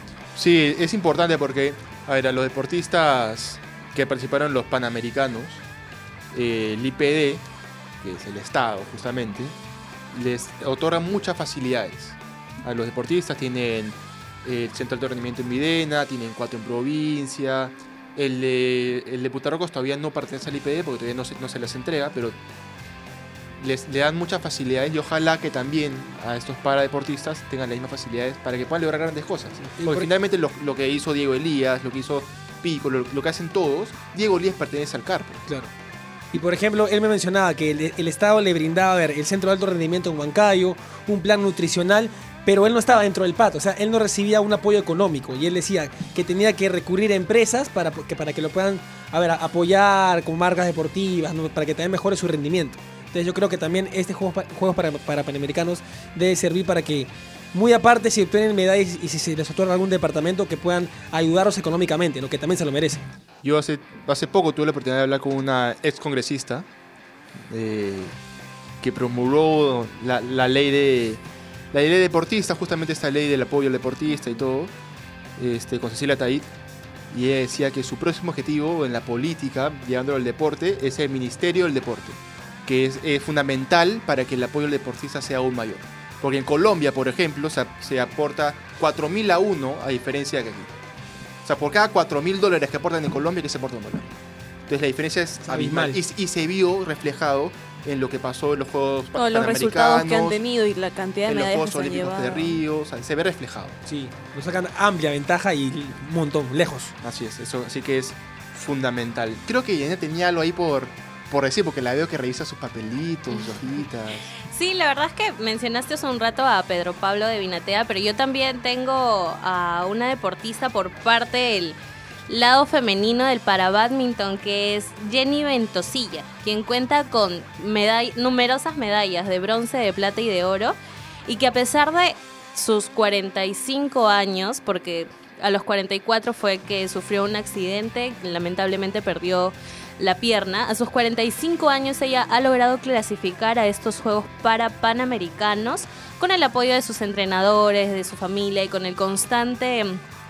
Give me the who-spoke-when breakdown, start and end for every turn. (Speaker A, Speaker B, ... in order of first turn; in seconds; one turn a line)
Speaker A: 0.3-5.6
Speaker A: 6.3-7.4
Speaker A: 8.0-9.5
Speaker A: 10.1-22.4
Speaker A: 23.6-35.4
Speaker B: 29.6-30.1
Speaker B: 35.5-35.7
Speaker B: 36.3-63.0
Speaker A: 63.4-66.7
Speaker A: 67.5-68.2
Speaker A: 68.8-74.7
Speaker A: 75.4-76.5
Speaker A: 77.1-90.7
Speaker A: 91.4-94.1
Speaker A: 94.7-100.4
Speaker B: 95.4-96.0
Speaker C: 99.1-102.6
Speaker A: 101.2-103.8
Speaker B: 103.8-106.9
Speaker A: 107.0-114.3
Speaker D: 114.4-150.0